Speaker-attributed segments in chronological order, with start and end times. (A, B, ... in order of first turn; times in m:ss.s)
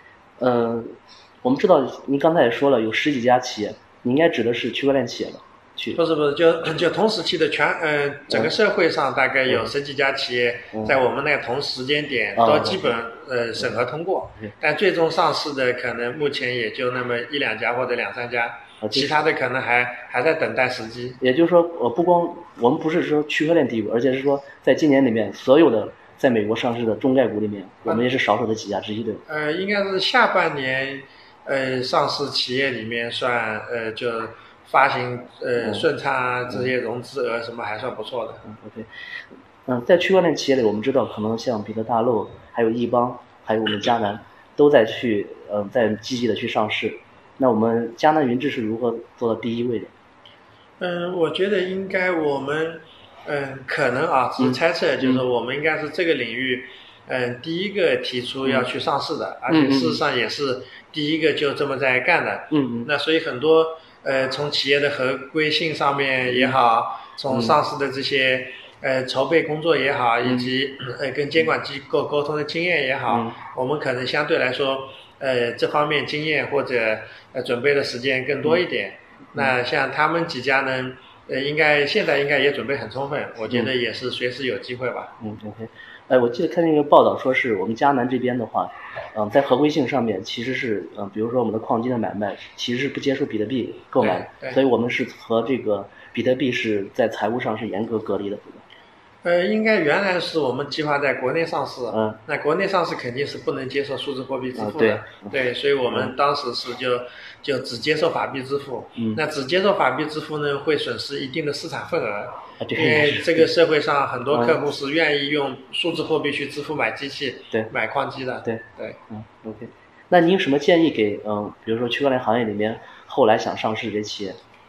0:00.4-0:06.0 A
0:06.0-0:21.2 B
0:10.7-0:11.0 A
0:12.4-0:13.0 A
0:18.8-0:19.1 A
0:21.2-0:29.2 A
0:29.3-0:38.4 B
0:35.6-0:35.9 A
0:38.4-0:49.9 A
0:50.8-1:25.2 B
0:54.4-0:55.2 A
0:58.4-0:58.7 A
0:59.5-1:00.0 A
1:02.5-1:02.9 A
1:06.3-1:06.6 A
1:07.3-1:07.6 A
1:10.2-1:10.5 A
1:13.1-1:13.4 A
1:25.2-1:38.6 A
1:34.0-1:34.6 B
1:39.2-1:59.0 B
1:41.9-1:42.2 A
1:44.6-1:45.3 A
1:45.9-1:46.1 A
1:49.0-1:49.2 A
1:52.6-1:53.5 A
1:54.3-1:54.6 A
1:58.4-2:04.4 A